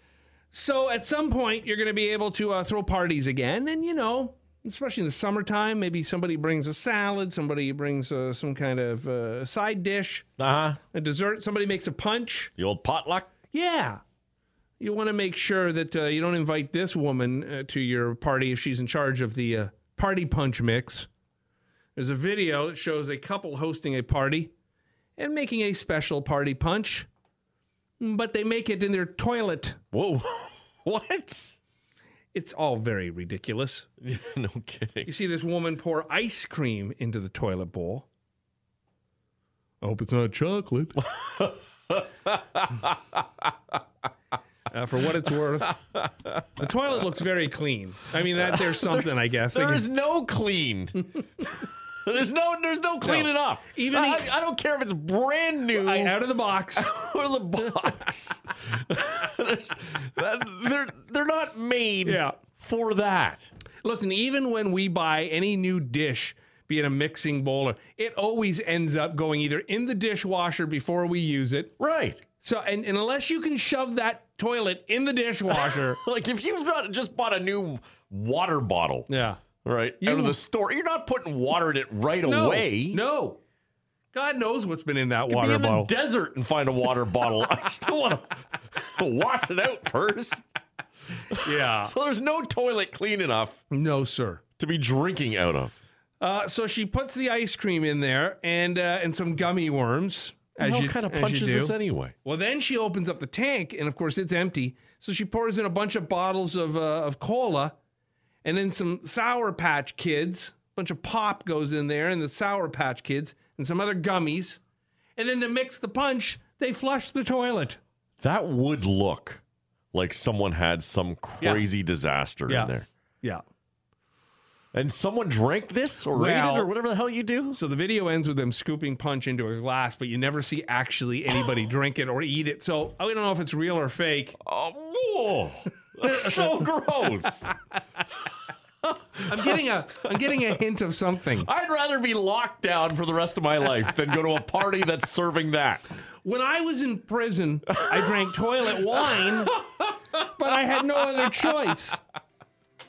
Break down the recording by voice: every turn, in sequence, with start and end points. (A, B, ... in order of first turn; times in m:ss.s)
0:00.5-0:10.3 A
0:10.4-0:10.8 B
0:10.9-0:12.5 A
0:12.6-0:13.3 B
0:13.5-0:14.0 A
0:14.8-0:21.1 A
0:22.0-0:24.5 A
0:25.2-0:27.1 A
0:28.0-0:29.8 A
0:29.9-0:31.6 B
0:32.3-0:33.9 A
0:34.0-0:35.1 B
0:35.0-0:38.1 A
0:39.8-0:41.0 A
0:41.0-0:43.2 B
0:44.7-0:45.8 A
0:45.9-0:46.4 B
0:46.6-0:49.8 A
0:48.4-0:56.2 B
0:53.0-0:54.3 A
0:55.7-0:56.9 A
0:56.7-1:03.5 B
1:02.0-1:02.4 A
1:03.8-1:11.7 A
1:11.8-1:12.2 B
1:12.4-1:16.0 A
1:15.5-1:19.1 B
1:19.1-1:19.4 A
1:19.6-1:23.0 B
1:20.0-1:20.4 A
1:22.2-1:23.4 A
1:24.1-1:25.9 A
1:25.3-1:30.4 B
1:31.3-1:33.6 B
1:31.4-1:31.9 A
1:33.7-1:34.4 A
1:34.6-1:35.7 B
1:36.2-1:47.8 A
1:40.6-1:42.1 B
1:48.4-1:54.6 A
1:55.2-1:57.8 A
1:58.2-2:02.9 B
2:04.7-2:07.6 B
2:06.1-2:06.7 A
2:07.6-2:14.4 A
2:14.4-2:17.5 B
2:16.1-2:16.4 A
2:18.8-2:19.5 B
2:19.2-2:21.5 A
2:21.4-2:25.8 B
2:26.2-2:29.5 A
2:28.8-2:29.8 B
2:30.2-2:32.0 A